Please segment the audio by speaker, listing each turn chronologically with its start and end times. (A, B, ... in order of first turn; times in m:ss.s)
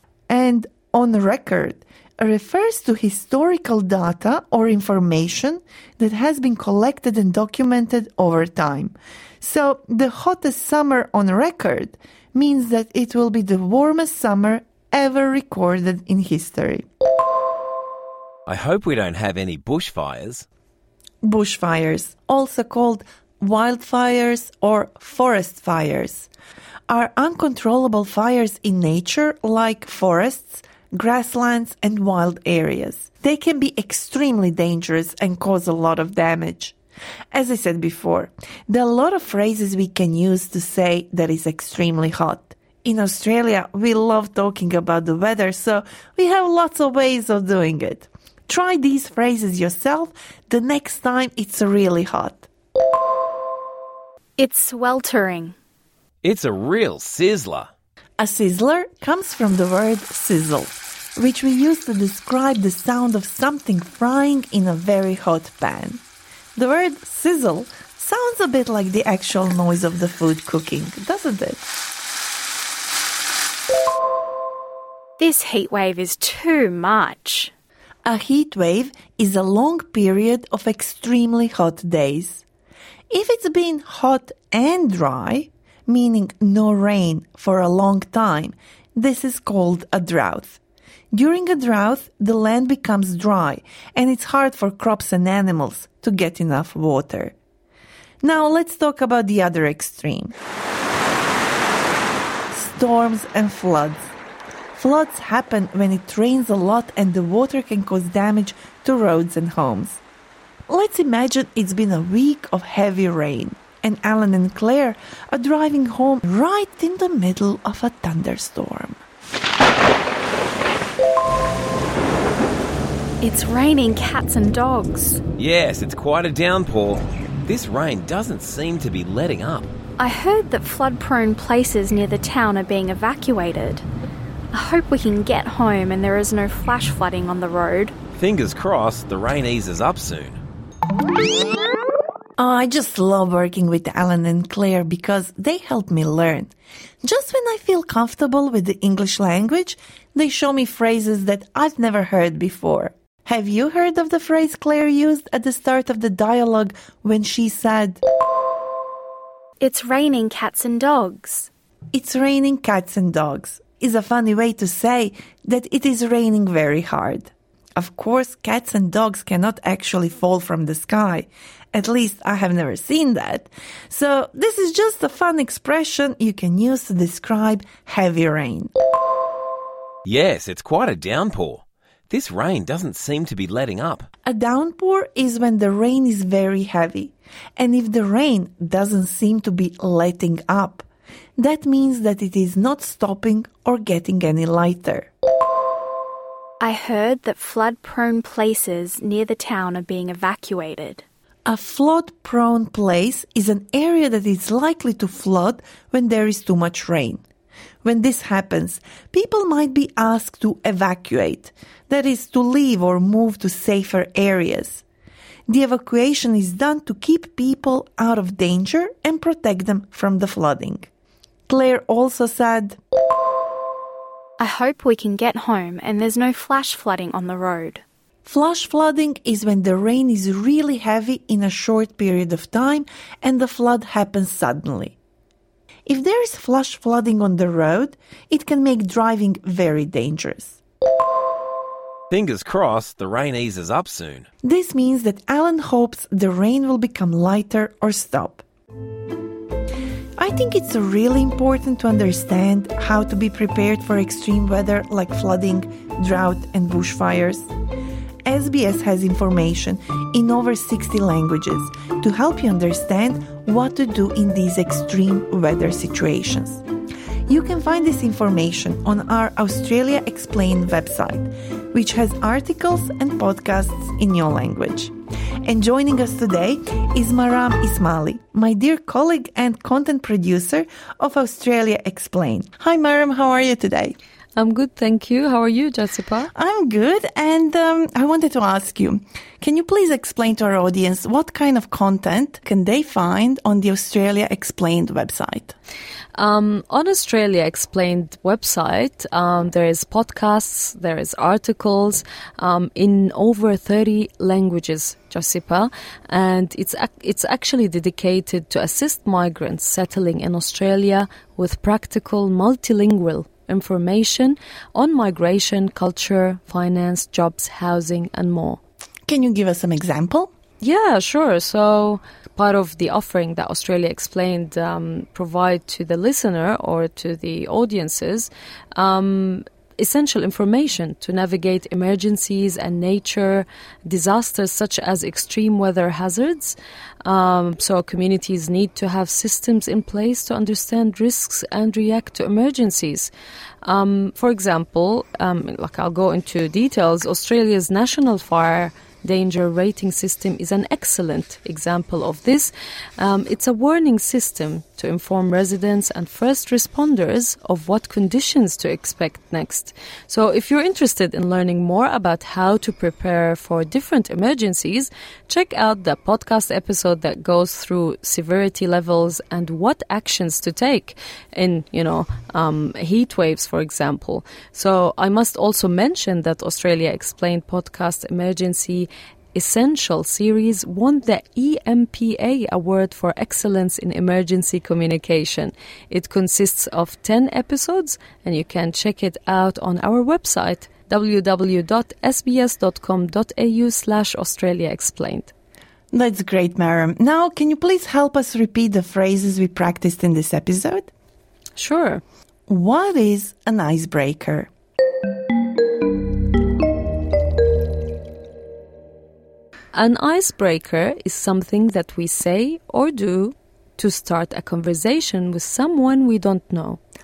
0:00.3-0:16.9 A
0:18.5-0:20.5 B
0:21.2-0:26.3 A
0:26.9-0:36.8 A
0:37.3-0:52.5 A
0:54.4-0:55.6 C
0:56.2-0:57.7 B
0:58.2-1:06.0 A
1:06.6-1:11.6 A
1:15.2-1:17.5 C
1:18.0-1:22.4 A
1:23.1-1:30.6 A
1:31.1-1:37.4 A
1:38.2-1:40.4 A
1:42.5-1:44.1 A
1:44.8-1:50.0 A
1:50.7-1:59.0 A
2:03.2-2:05.2 C
2:05.4-2:09.7 B
2:10.0-2:13.8 C
2:14.5-2:18.0 C
2:18.1-2:20.4 B
2:22.4-2:26.5 A
2:27.0-2:38.0 A
2:39.6-2:41.5 C
2:41.9-2:58.7 A
3:00.1-3:04.1 B
3:04.2-3:10.9 A
3:11.4-3:15.1 A
3:16.6-3:21.0 C
3:21.5-3:27.2 A
3:27.8-3:34.8 A
3:35.5-3:40.9 A
3:41.5-3:42.8 A
3:44.4-3:47.8 C
3:48.2-3:55.0 A
3:55.9-4:00.6 A
4:02.1-4:04.3 B
4:04.4-4:08.4 A
4:10.2-4:17.5 A
4:18.3-4:26.6 A
4:27.3-4:34.9 A
4:35.5-4:44.0 A
4:44.4-4:46.3 D
4:46.3-4:55.6 A
4:56.2-5:18.6 D
5:19.1-5:20.3 A
5:20.6-5:43.1 D
5:43.6-6:35.3 D
6:35.9-6:40.9 A
6:41.6-6:42.0 D
6:42.5-6:44.5 A
6:49.7-6:56.8 D